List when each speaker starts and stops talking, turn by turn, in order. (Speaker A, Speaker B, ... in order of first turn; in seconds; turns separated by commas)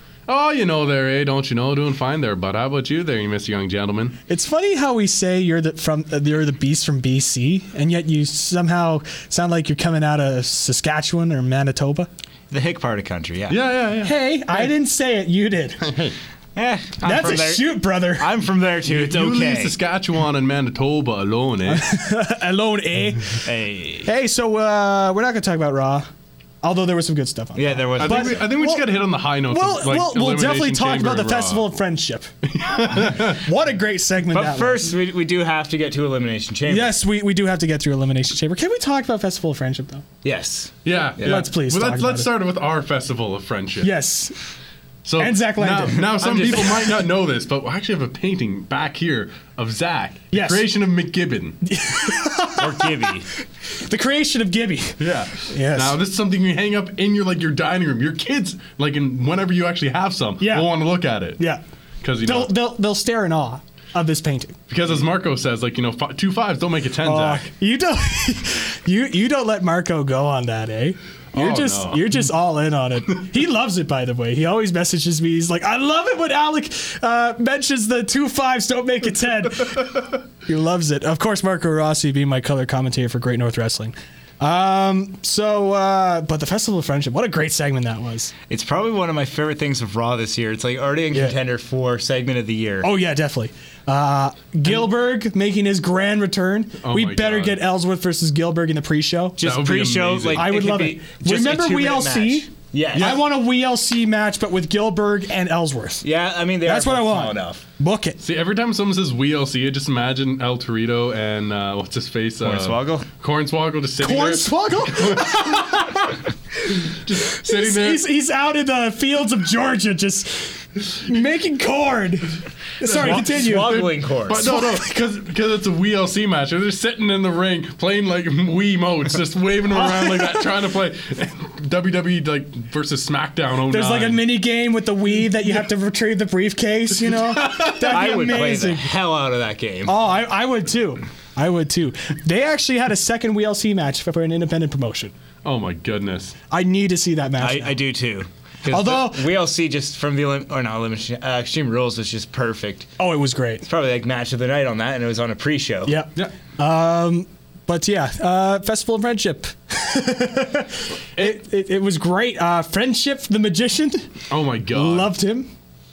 Speaker A: 0.3-4.2, Speaker B: 4.3-12.1, Speaker C: 12.5-13.6, Speaker A: 13.5-14.7, Speaker B: 14.0-15.8, Speaker A: 15.8-16.1, Speaker C: 16.6-19.8, Speaker B: 17.0-18.3, Speaker A: 18.9-21.9, Speaker B: 21.7-23.4, Speaker C: 23.4-24.1, Speaker B: 24.0-26.1, Speaker B: 26.6-32.3, Speaker C: 27.5-28.4, Speaker A: 28.0-31.6, Speaker A: 32.5-33.4, Speaker B: 32.9-35.0, Speaker C: 34.3-36.9, Speaker B: 36.7-40.0, Speaker C: 40.2-41.4, Speaker A: 40.8-43.9, Speaker B: 41.2-42.3, Speaker B: 43.8-44.4, Speaker A: 45.0-51.6, Speaker B: 45.2-46.9, Speaker C: 46.2-46.7, Speaker B: 50.3-50.6, Speaker B: 51.6-53.1, Speaker C: 52.6-53.3, Speaker B: 53.6-55.0, Speaker A: 55.0-61.4, Speaker B: 55.5-56.0, Speaker B: 60.4-60.7, Speaker A: 62.0-62.5, Speaker B: 62.2-64.6, Speaker A: 64.7-67.5, Speaker B: 67.0-88.3, Speaker A: 71.3-72.3, Speaker C: 88.5-93.0, Speaker B: 92.8-99.4, Speaker A: 96.8-97.6, Speaker C: 99.4-103.2, Speaker A: 99.4-100.6, Speaker B: 100.3-106.0, Speaker A: 102.9-103.2, Speaker C: 106.0-107.6, Speaker B: 106.6-108.2, Speaker A: 108.2-115.3, Speaker C: 112.4-113.1, Speaker B: 114.0-116.2, Speaker A: 116.8-118.0, Speaker B: 117.4-125.0, Speaker A: 122.8-134.2, Speaker C: 122.9-124.5, Speaker B: 129.7-130.5, Speaker B: 133.7-138.9, Speaker A: 137.0-138.2, Speaker C: 137.8-140.0, Speaker B: 139.8-145.1, Speaker A: 145.4-146.3, Speaker B: 146.5-147.8, Speaker C: 147.4-152.9, Speaker B: 148.7-149.3, Speaker B: 153.0-153.6, Speaker C: 153.6-156.0, Speaker B: 155.8-164.1, Speaker A: 164.3-165.2, Speaker B: 164.7-165.5